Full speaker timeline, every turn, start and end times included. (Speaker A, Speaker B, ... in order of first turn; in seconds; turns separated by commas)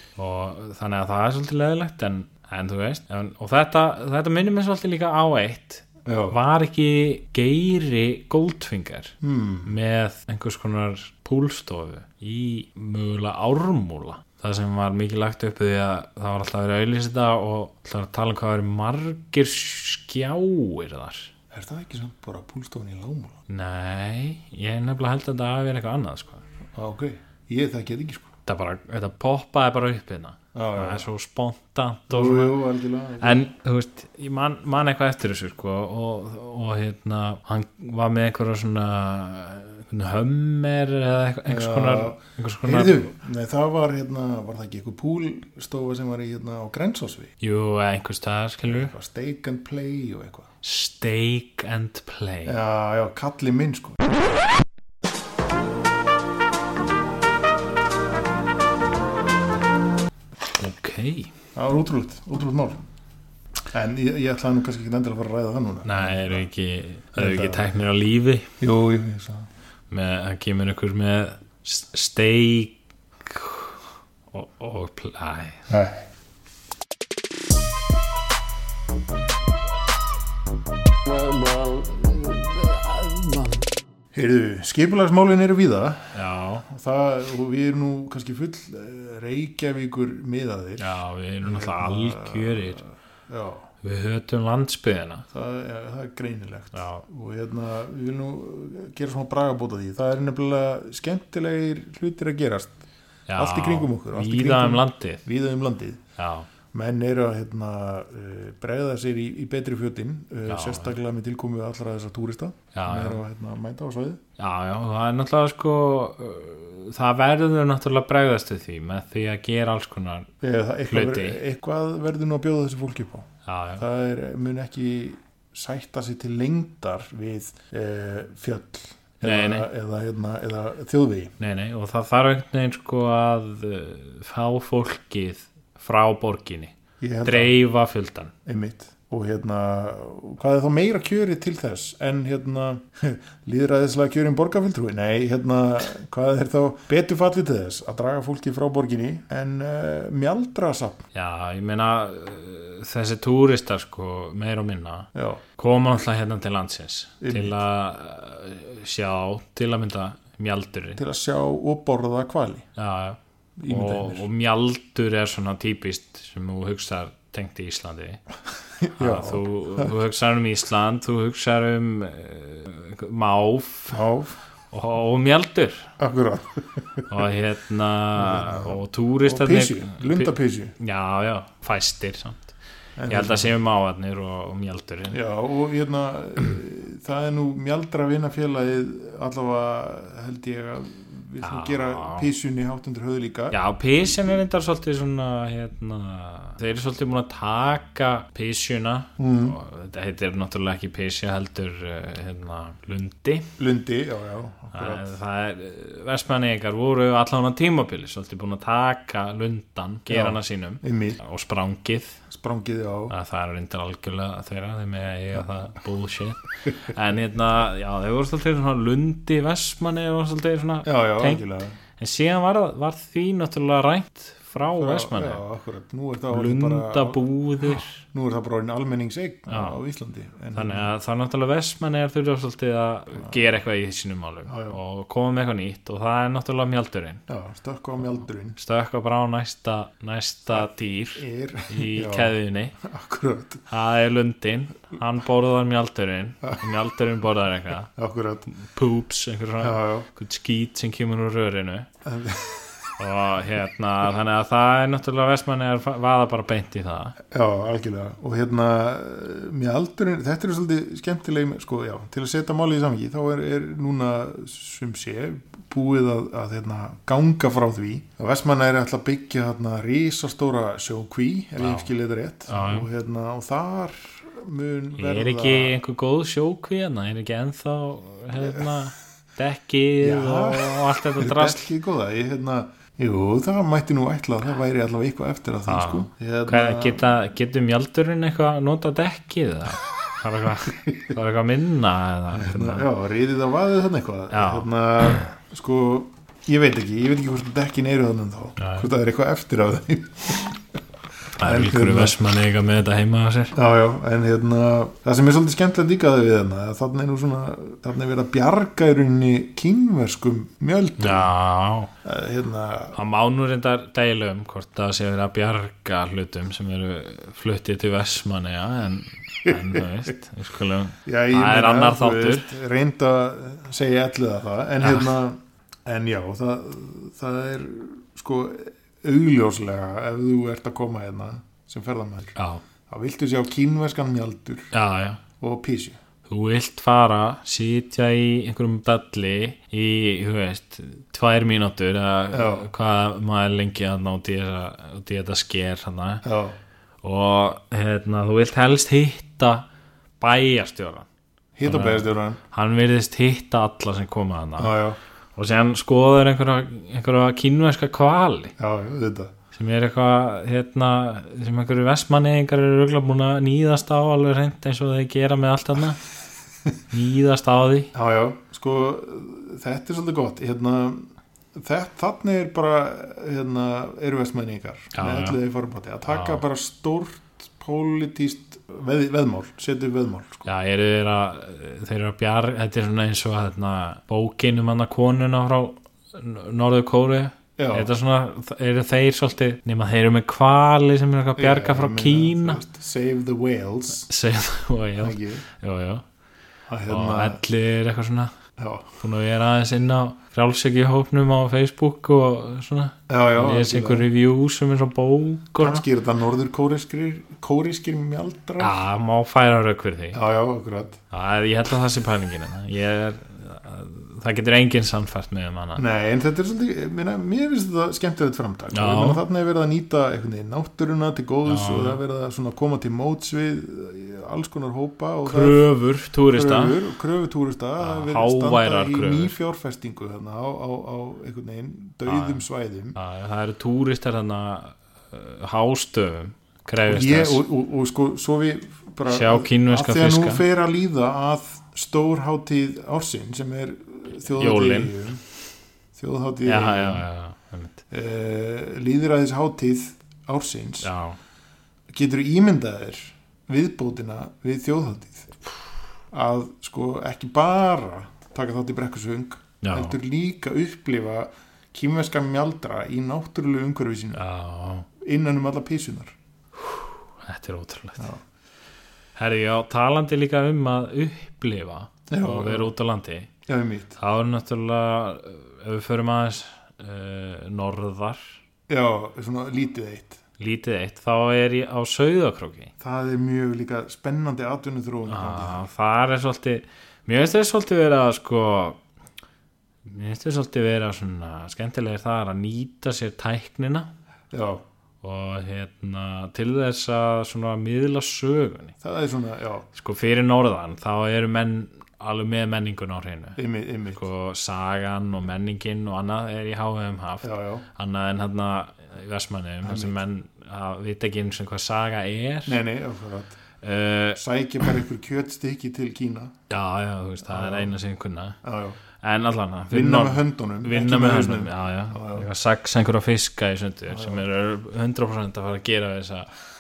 Speaker A: 0.2-21.3, Speaker B: 6.0-6.4, Speaker B: 9.2-9.8, Speaker B: 21.5-23.4, Speaker A: 23.5-26.4, Speaker B: 26.8-28.3, Speaker A: 28.5-32.6, Speaker B: 30.5-31.1, Speaker B: 32.1-33.4, Speaker A: 33.2-43.1, Speaker B: 41.5-47.3, Speaker A: 47.4-48.9, Speaker B: 48.6-50.5, Speaker A: 50.6-52.5, Speaker B: 52.5-54.1, Speaker A: 60.6-61.3, Speaker B: 61.5-62.9, Speaker B: 63.7-66.5, Speaker A: 65.8-68.5, Speaker B: 67.2-67.7, Speaker B: 68.6-69.5, Speaker A: 69.9-73.8, Speaker A: 74.3-75.6, Speaker B: 75.7-76.0, Speaker C: 81.1-83.7, Speaker B: 84.1-93.7, Speaker A: 86.1-86.7, Speaker A: 90.8-92.8, Speaker A: 93.8-95.2, Speaker B: 95.3-102.8, Speaker A: 96.7-97.0, Speaker A: 103.3-105.2, Speaker B: 103.4-106.0, Speaker A: 106.2-106.5, Speaker B: 106.7-114.2, Speaker A: 110.5-110.9, Speaker A: 112.7-113.2, Speaker A: 114.4-120.3, Speaker B: 120.4-131.3, Speaker A: 120.9-121.4, Speaker A: 123.5-123.8, Speaker A: 129.2-129.7, Speaker A: 131.4-138.3, Speaker B: 137.0-137.6, Speaker B: 138.4-151.1, Speaker A: 151.1-161.0, Speaker B: 155.2-155.4, Speaker B: 157.2-157.6, Speaker B: 161.0-162.7, Speaker A: 162.8-168.2, Speaker B: 163.6-164.3, Speaker B: 168.8-169.9, Speaker A: 169.0-174.0, Speaker B: 173.9-174.4, Speaker A: 174.7-175.9, Speaker B: 176.0-177.1, Speaker A: 177.1-182.6, Speaker B: 178.2-180.7, Speaker B: 183.0-183.6, Speaker A: 183.1-185.2, Speaker B: 185.1-193.6, Speaker A: 191.4-192.3, Speaker A: 193.5-203.5, Speaker B: 199.2-199.6, Speaker B: 203.6-205.2, Speaker A: 204.7-212.2, Speaker B: 210.1-211.2, Speaker B: 212.3-213.1, Speaker A: 213.1-221.4, Speaker B: 220.8-221.8, Speaker A: 222.0-225.4, Speaker B: 224.7-230.9, Speaker A: 226.3-228.0, Speaker A: 229.5-229.8, Speaker A: 230.5-237.2, Speaker B: 234.5-234.8, Speaker B: 237.3-238.6, Speaker A: 238.6-242.8, Speaker B: 240.5-243.6, Speaker A: 243.7-247.9, Speaker B: 247.9-248.5, Speaker A: 248.5-251.9, Speaker B: 249.6-250.1, Speaker B: 252.1-252.9, Speaker A: 253.0-257.2, Speaker B: 257.3-275.8, Speaker A: 271.6-271.9, Speaker A: 272.5-272.9, Speaker A: 275.0-281.6, Speaker B: 278.4-278.7, Speaker B: 280.0-287.1, Speaker A: 285.7-292.9, Speaker B: 292.3-300.6, Speaker A: 294.3-295.3, Speaker A: 298.6-298.9, Speaker A: 301.4-303.6, Speaker B: 301.4-302.1, Speaker B: 303.6-311.3, Speaker A: 311.0-311.9, Speaker B: 312.0-313.0, Speaker A: 312.9-322.5, Speaker B: 319.5-319.8, Speaker B: 321.1-332.4, Speaker A: 324.8-325.2, Speaker A: 332.4-332.6, Speaker B: 332.9-334.7, Speaker A: 334.7-335.2, Speaker B: 335.4-336.0, Speaker A: 336.3-346.2, Speaker B: 342.3-342.7, Speaker B: 346.2-346.6, Speaker A: 347.0-349.7, Speaker A: 350.2-351.1, Speaker B: 351.6-352.4, Speaker A: 351.7-354.8, Speaker B: 354.6-355.0, Speaker A: 355.4-358.6, Speaker B: 358.6-359.3, Speaker A: 359.5-366.0, Speaker A: 366.9-367.9, Speaker B: 367.9-380.5, Speaker A: 374.9-375.4, Speaker A: 376.1-376.4, Speaker A: 380.4-392.6, Speaker B: 387.6-387.9, Speaker B: 391.4-394.1, Speaker A: 394.1-396.0, Speaker B: 395.0-395.4, Speaker B: 396.7-397.4, Speaker A: 396.9-398.4, Speaker B: 398.6-399.0, Speaker A: 399.0-405.8, Speaker B: 403.1-404.1, Speaker B: 405.6-408.8, Speaker A: 408.6-410.2, Speaker B: 410.1-411.0, Speaker A: 411.1-415.8, Speaker B: 415.8-425.6, Speaker A: 418.7-419.2, Speaker A: 421.5-422.0, Speaker A: 425.3-426.8, Speaker B: 426.3-433.0, Speaker A: 427.8-429.4, Speaker A: 432.1-432.4, Speaker A: 432.9-437.4, Speaker B: 436.8-445.2, Speaker A: 439.1-440.4, Speaker A: 444.4-445.1, Speaker B: 445.9-447.1, Speaker A: 446.4-447.8, Speaker B: 447.9-450.9, Speaker A: 450.8-451.2, Speaker B: 451.9-455.4, Speaker B: 456.1-464.2, Speaker A: 459.6-460.0, Speaker A: 464.1-464.9, Speaker B: 465.0-466.1, Speaker A: 466.6-468.1, Speaker A: 469.2-473.3, Speaker B: 472.1-472.7, Speaker B: 473.5-474.0, Speaker A: 474.0-478.4, Speaker B: 478.7-480.2, Speaker A: 480.4-482.7, Speaker B: 482.8-485.6, Speaker A: 485.1-488.8, Speaker A: 489.9-493.9, Speaker B: 494.3-494.6, Speaker A: 495.0-498.8, Speaker B: 498.8-499.7, Speaker A: 499.7-503.4, Speaker B: 503.4-504.0, Speaker A: 503.9-512.6, Speaker B: 507.2-507.7, Speaker B: 509.6-510.0, Speaker B: 512.5-513.4, Speaker A: 513.6-514.2, Speaker B: 514.2-516.4, Speaker A: 516.5-518.4, Speaker B: 517.2-517.7, Speaker B: 518.4-518.8, Speaker A: 519.0-526.3, Speaker B: 519.7-522.3, Speaker B: 523.9-524.2